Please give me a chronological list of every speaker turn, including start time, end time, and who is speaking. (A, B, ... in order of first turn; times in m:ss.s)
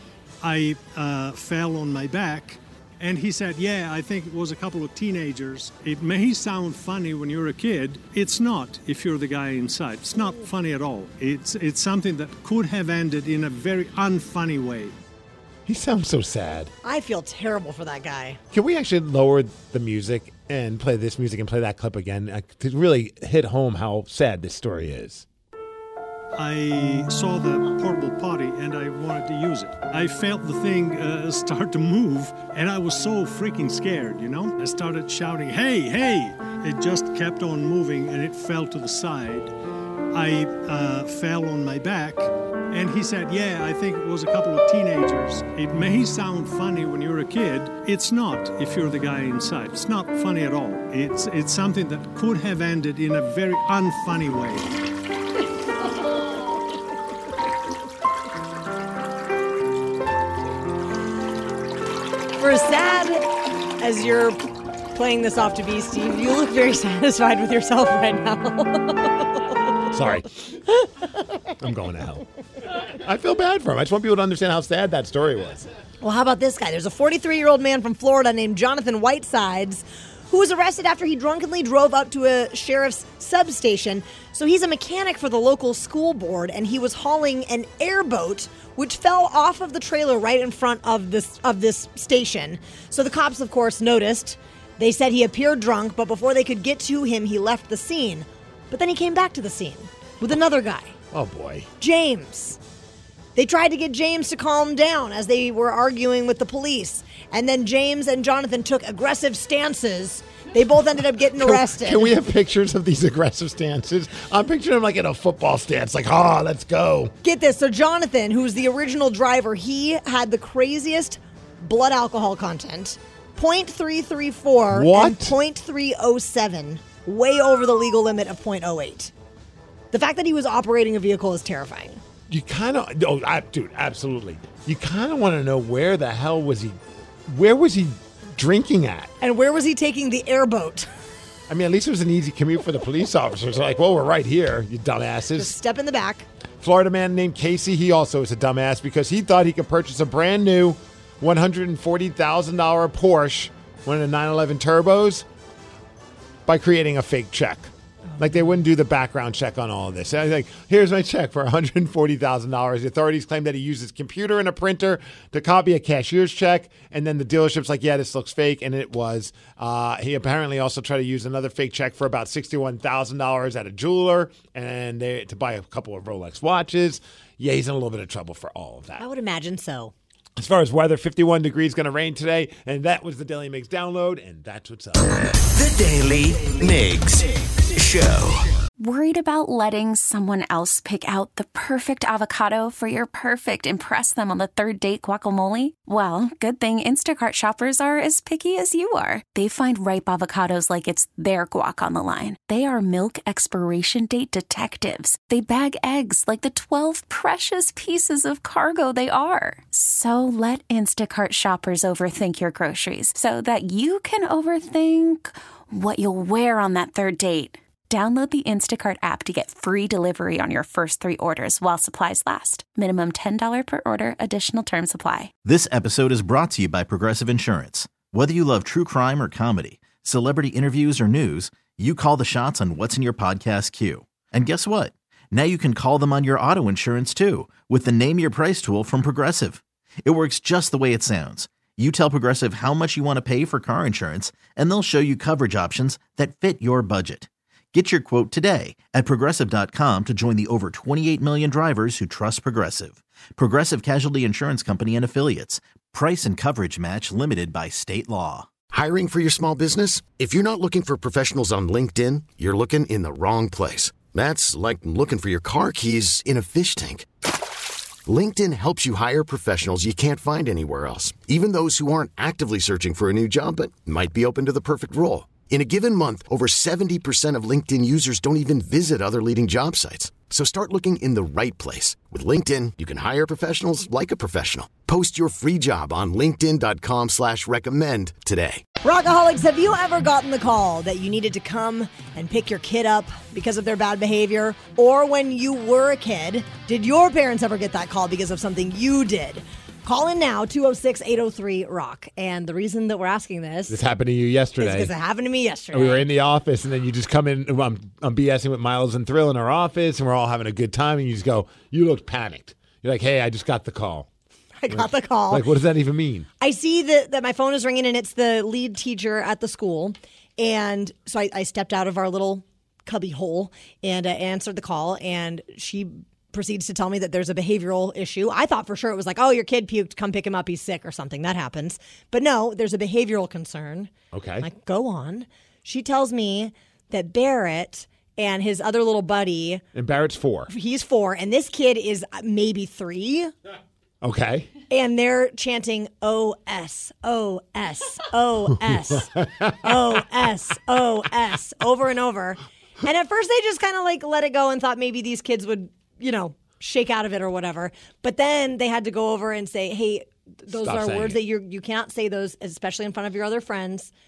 0:00.4-0:14.9 A
0:15.6-0:16.7 B
0:16.8-0:18.4 C
0:18.5-0:25.2 B
0:26.4-0:39.5 A
0:40.1-0:54.7 A
1:02.4-1:04.4 C
1:04.9-1:09.6 C
1:09.9-1:10.3 B
1:11.6-1:12.2 B
1:12.8-1:15.6 B
1:16.0-1:40.9 C
1:41.1-1:41.7 B
1:41.8-1:42.6 C
1:43.4-1:52.1 C
1:51.4-1:57.1 B
1:57.2-2:09.1 C
2:04.7-2:05.4 B
2:09.9-2:12.0 C
2:12.3-2:16.8 B
2:17.3-2:19.1 B
2:19.2-2:20.9 C
2:21.5-2:25.5 B
2:25.3-2:26.3 C
2:26.6-2:35.2 B
2:36.4-2:59.0 B
2:59.0-2:59.9 C
3:00.4-3:05.1 B
3:05.5-3:07.2 D
3:07.8-3:08.4 D
3:08.8-3:45.3 E
3:45.5-4:18.4 F
4:18.7-4:27.0 G
4:28.1-4:48.6 G
4:48.8-5:03.8 C
5:03.7-5:04.9 B
5:04.6-5:06.0 C
5:05.7-5:14.1 B
5:14.6-5:15.5 C
5:14.7-5:16.3 B
5:16.4-5:33.9 C
5:34.1-5:34.5 B
5:34.4-5:39.6 C
5:39.7-5:40.5 B
5:40.5-5:43.3 C
5:44.0-5:44.5 B
5:44.7-6:03.9 C
5:49.0-5:49.4 B
6:00.5-6:01.2 B